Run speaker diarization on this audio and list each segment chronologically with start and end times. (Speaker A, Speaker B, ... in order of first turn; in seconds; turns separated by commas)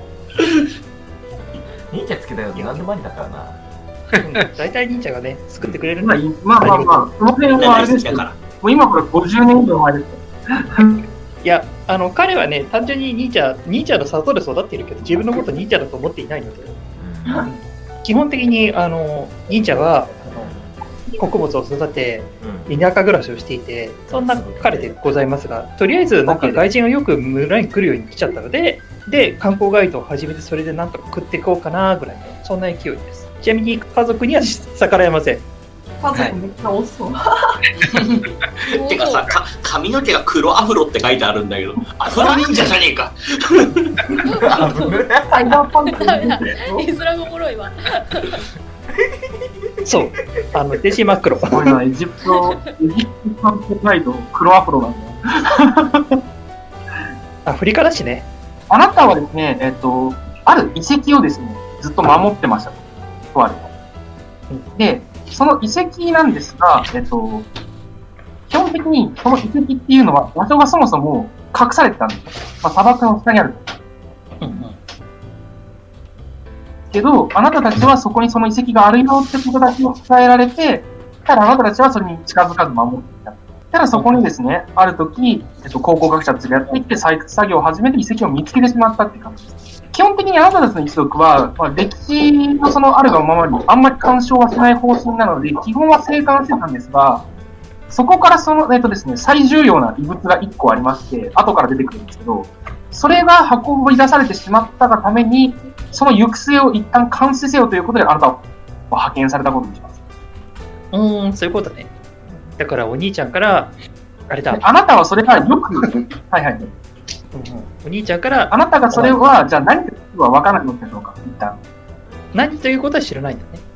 Speaker A: 1.9-3.6, Speaker B: 2.5-2.9, Speaker B: 4.2-7.7, Speaker A: 5.6-5.8, Speaker C: 6.0-11.0, Speaker D: 7.6-8.4, Speaker B: 11.4-16.8, Speaker A: 17.0-17.5, Speaker E: 17.2-17.5, Speaker B: 17.4-20.5, Speaker A: 20.4-20.8, Speaker B: 21.2-35.4, Speaker A: 22.4-22.8, Speaker A: 24.1-25.1, Speaker C: 26.3-26.6, Speaker E: 36.0-37.5, Speaker D: 38.6-44.0, Speaker F: 38.7-39.3, Speaker F: 44.3-45.0, Speaker A: 44.4-46.2, Speaker E: 44.6-46.9, Speaker F: 45.8-48.4, Speaker A: 48.9-49.7, Speaker B: 49.9-51.7, Speaker C: 51.5-56.2, Speaker F: 52.3-52.7, Speaker B: 57.5-58.3, Speaker C: 58.7-63.7, Speaker C: 64.8-67.5, Speaker C: 68.5-73.6, Speaker B: 74.4-74.8, Speaker C: 76.9-97.2, Speaker B: 83.9-84.3, Speaker C: 97.9-109.9, Speaker B: 110.9-111.9, Speaker A: 112.2-112.6, Speaker B: 112.6-113.7, Speaker B: 114.3-114.6, Speaker C: 114.6-116.7, Speaker B: 115.8-116.0, Speaker B: 117.3-119.3, Speaker C: 118.5-121.6, Speaker B: 122.3-123.6